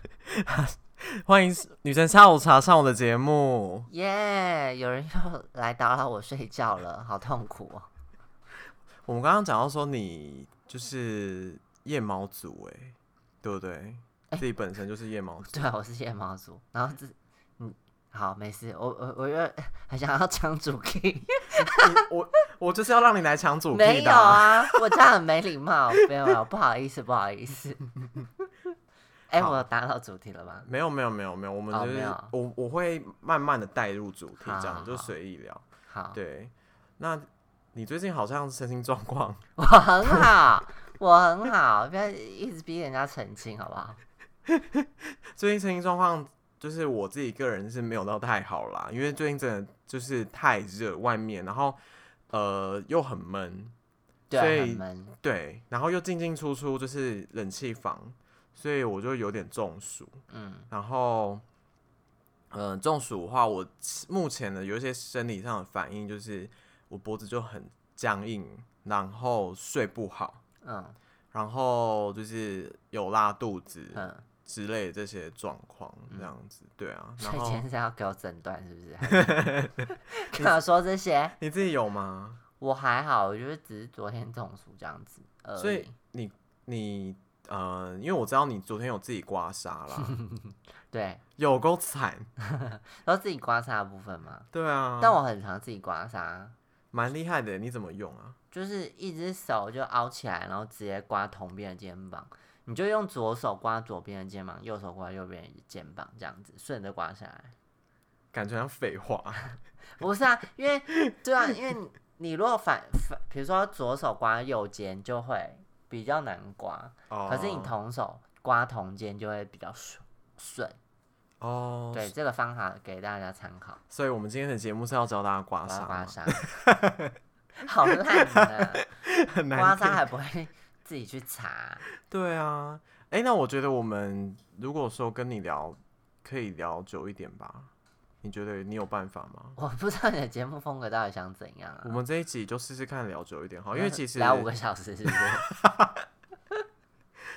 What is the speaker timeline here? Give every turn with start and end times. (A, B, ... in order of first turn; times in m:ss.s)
0:00.3-0:03.9 A
0:03.9-0:07.9 B
0:09.1-0:15.7 A
0:15.5-0:22.0 B
0:21.6-0:24.8 A
0:23.7-0:27.9 B
0:29.3-0:30.7 B
0:30.6-0:39.4 A
0:31.7-0:32.4 B
0:34.4-0:35.2 B
0:35.9-0:36.2 B
0:39.6-0:44.0 B
0:44.5-0:51.8 A
0:52.3-0:53.7 A
0:54.3-0:55.2 B
0:54.4-1:00.2 A
1:00.3-1:00.7 B
1:00.7-1:01.4 A
1:02.5-1:10.4 A
1:10.6-1:11.0 B
1:11.3-1:17.6 A
1:13.9-1:14.2 B
1:17.2-1:21.4 B
1:19.1-1:19.7 A
1:21.4-1:22.4 A
1:22.6-1:25.9 B
1:25.6-1:30.2 A
1:30.1-1:31.2 B
1:31.4-1:32.3 A
1:32.4-1:34.5 B
1:34.5-1:35.2 A
1:35.0-1:36.6 B
1:36.9-1:38.4 A
1:38.5-1:47.5 B
1:48.3-1:49.4 A
1:50.0-2:00.8 B
1:57.1-1:57.7 A
2:01.4-2:02.1 A
2:01.9-2:03.8 B
2:03.9-2:07.2 A
2:05.6-2:06.5 B
2:07.6-2:08.9 B
2:08.2-2:10.1 A
2:09.5-2:11.8 B
2:12.0-2:17.7 A
2:18.2-2:19.6 A
2:19.6-2:22.0 B
2:21.8-2:24.5 A
2:23.7-2:25.5 B
2:25.1-2:26.0 A